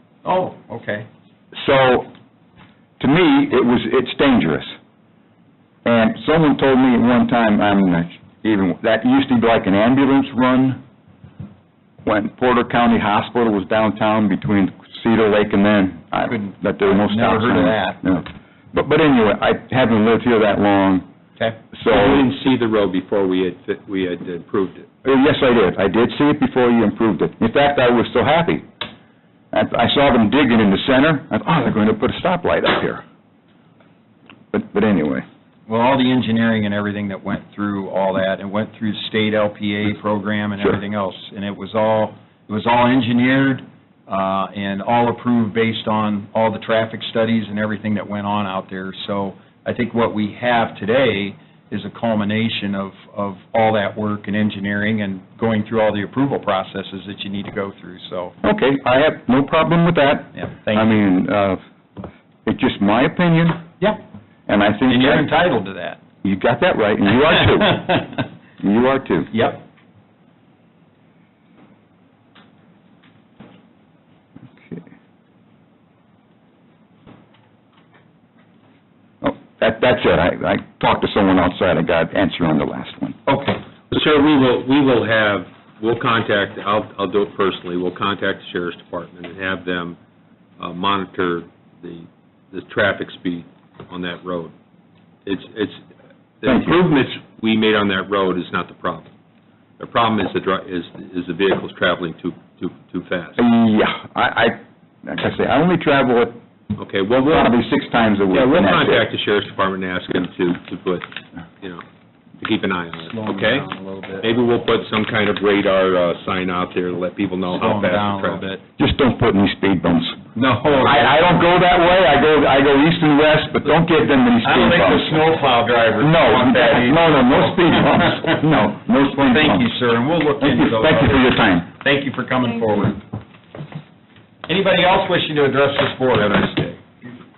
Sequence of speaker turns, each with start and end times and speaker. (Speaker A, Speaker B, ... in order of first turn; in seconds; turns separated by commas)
Speaker A: 0.2-1.1, Speaker B: 1.6-2.1, Speaker B: 3.0-4.8, Speaker B: 5.8-10.8, Speaker B: 12.0-21.1, Speaker A: 16.3-18.2, Speaker B: 21.7-22.3, Speaker C: 21.9-24.9, Speaker B: 25.0-28.7, Speaker B: 29.5-33.0, Speaker B: 34.5-35.3, Speaker A: 35.7-58.4, Speaker B: 58.4-61.6, Speaker A: 60.4-61.0, Speaker B: 62.5-63.7, Speaker B: 64.5-65.3, Speaker A: 64.9-66.0, Speaker B: 66.2-67.9, Speaker A: 67.2-68.1, Speaker B: 68.6-69.3, Speaker A: 69.3-69.6, Speaker B: 79.2-83.2, Speaker A: 83.3-83.6, Speaker C: 83.9-90.0, Speaker C: 90.6-94.5, Speaker C: 95.2-95.8, Speaker C: 96.4-99.1, Speaker B: 96.5-96.8, Speaker C: 99.8-103.4, Speaker B: 103.4-106.4, Speaker C: 106.8-107.6, Speaker B: 107.3-109.1, Speaker C: 108.3-111.8, Speaker C: 112.4-113.7, Speaker A: 113.0-114.3, Speaker C: 114.2-118.4, Speaker A: 117.5-118.6, Speaker B: 118.8-120.2, Speaker A: 120.4-121.3, Speaker B: 120.8-125.2, Speaker A: 124.4-128.4, Speaker B: 126.0-129.7, Speaker A: 129.2-133.0, Speaker B: 130.4-131.7, Speaker A: 134.5-137.1